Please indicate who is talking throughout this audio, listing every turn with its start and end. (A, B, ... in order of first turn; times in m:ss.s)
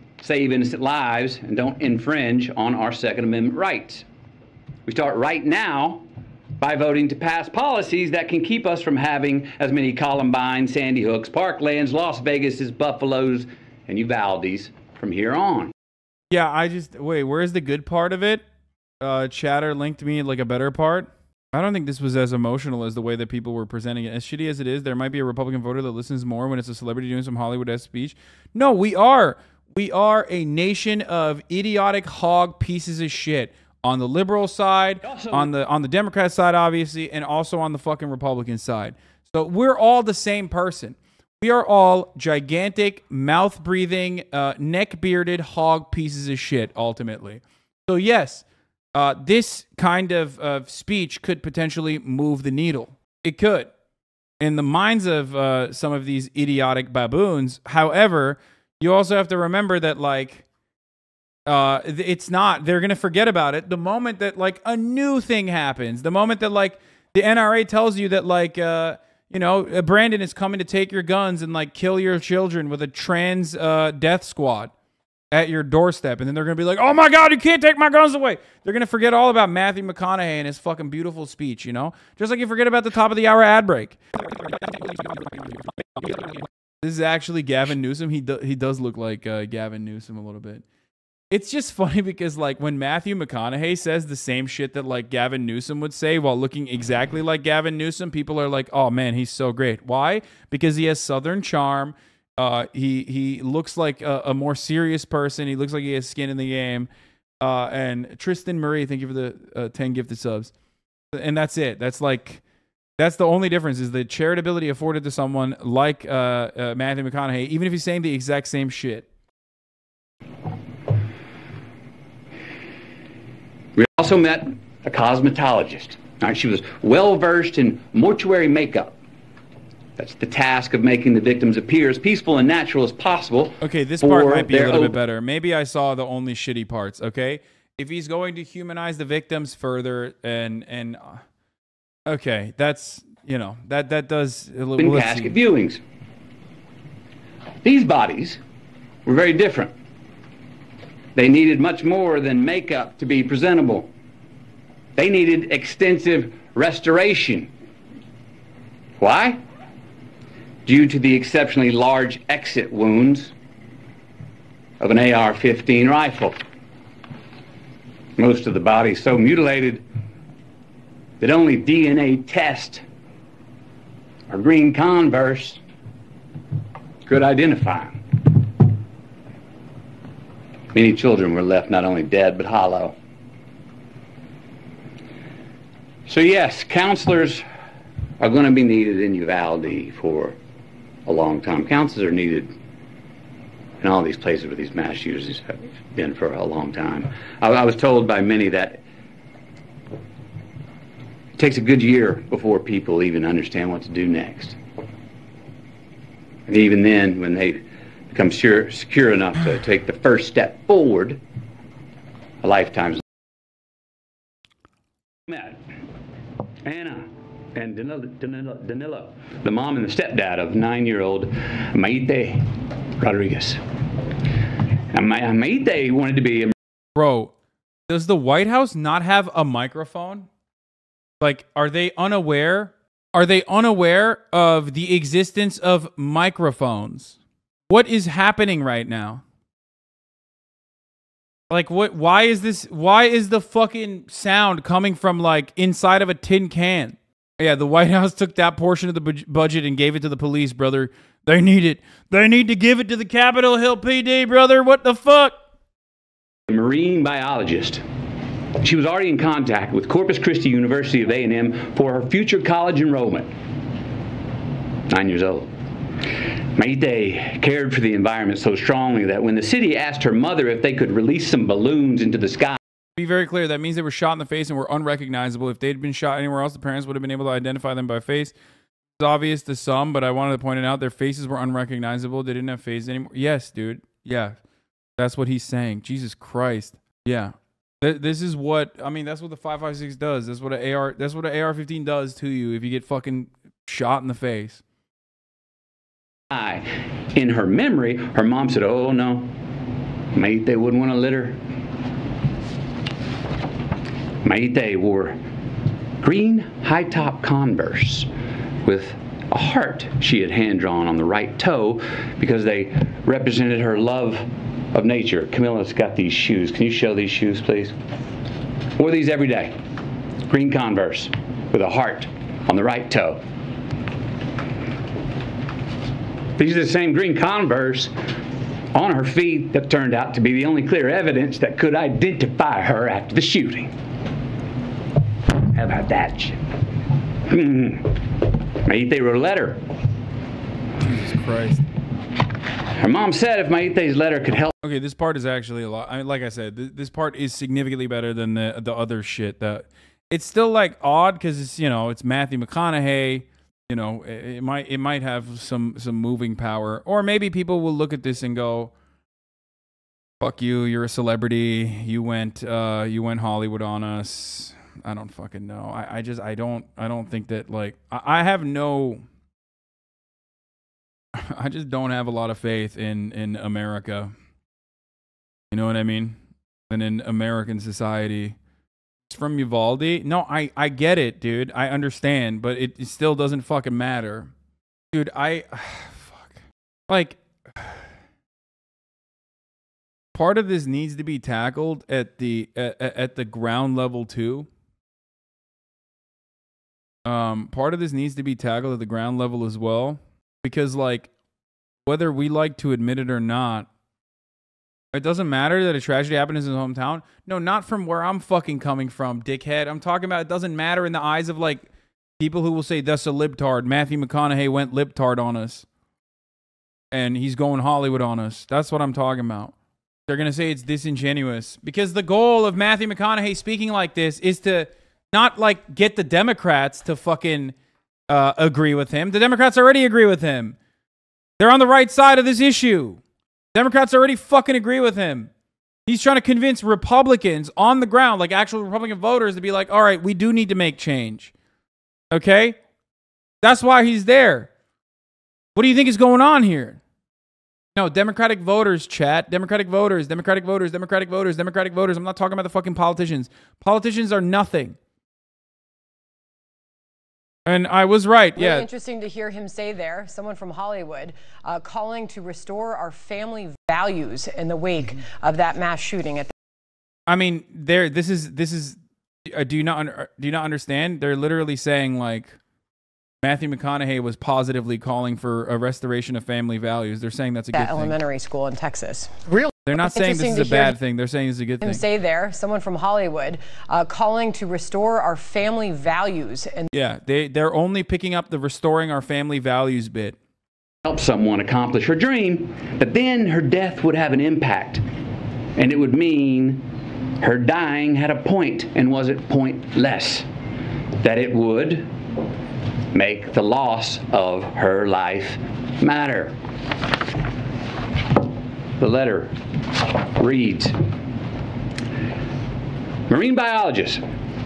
0:00.2-0:04.1 A
0:04.9-0:06.1 A
0:06.6-0:15.7 A
0:16.3-0:18.4 B
0:19.0-0:53.7 B
0:35.0-0:35.5 A
0:54.4-1:00.4 B
1:01.5-1:14.7 B
1:15.3-1:24.0 B
1:24.6-1:24.8 B
1:26.8-1:30.6 B
1:31.3-1:46.9 B
1:47.4-1:50.5 B
1:51.1-1:52.4 B
1:53.0-1:59.1 B
2:03.8-2:09.0 A
2:10.0-2:15.0 A
2:13.6-2:21.2 B
2:22.1-2:25.4 B
2:24.8-2:25.8 A
2:27.6-2:28.4 A
2:29.0-2:29.8 A
2:31.2-2:33.9 A
2:35.0-2:37.5 A
2:39.0-2:39.4 A
2:40.6-2:43.4 A
2:44.8-2:46.4 A
2:48.2-2:49.8 A
2:51.2-2:52.8 A
2:54.3-2:55.6 A
2:57.1-2:58.5 A
3:00.7-3:03.0 A
3:06.1-3:07.4 A
3:08.2-3:10.4 A
3:11.1-3:12.5 A
3:13.8-3:18.8 A
3:21.4-3:24.6 A
3:26.5-3:31.2 A
3:32.4-3:33.0 A
3:35.3-3:35.6 A
3:36.6-3:43.6 A
3:44.9-3:46.6 A
3:47.0-3:47.3 B
3:47.9-3:50.3 B
3:51.2-3:57.2 B
3:57.7-3:59.2 B
4:01.5-4:15.4 B
4:16.5-4:17.8 A
4:18.6-4:23.3 A
4:24.9-4:25.5 A
4:26.0-4:32.6 A
4:33.0-4:38.4 B
4:39.0-4:44.4 B
4:45.0-4:54.6 B
4:56.3-4:59.4 A
5:00.1-5:01.4 A
5:04.2-5:05.2 A
5:06.0-5:08.1 A
5:08.6-5:17.8 A
5:18.8-5:19.6 A
5:20.3-5:23.2 A
5:26.4-5:28.0 A
5:28.7-5:33.7 A
5:35.4-5:36.6 A
5:37.2-5:39.7 A
5:40.8-5:41.6 B
5:42.7-5:44.5 A
5:44.6-5:58.7 B
6:00.2-6:09.0 B
6:11.2-6:14.1 B
6:15.5-6:16.2 B
6:16.7-6:18.4 B
6:19.1-6:24.3 B
6:24.9-6:26.4 B
6:26.9-6:27.8 B
6:30.1-6:34.5 B
6:37.0-6:41.1 B
6:41.9-6:43.7 B
6:44.9-6:51.7 B
6:52.2-6:55.7 B
6:56.9-6:59.5 B
7:00.1-7:07.6 B
7:08.1-7:10.6 B
7:11.4-7:13.0 B
7:13.5-7:15.3 B
7:15.9-7:21.3 B
7:22.1-7:22.6 B
7:23.4-7:24.5 B
7:25.6-7:26.8 B
7:27.8-7:34.8 B
7:37.5-7:38.7 B
7:38.4-7:46.3 C
7:47.1-7:52.4 B
7:53.2-7:58.0 B
7:57.5-8:00.8 C
7:59.7-8:01.8 B
8:01.6-8:06.7 C
8:06.7-8:10.2 B
8:10.8-8:14.8 A
8:15.6-8:20.3 A
8:21.0-8:21.9 A
8:22.9-8:26.4 A
8:28.8-8:30.9 A
8:33.1-8:34.0 A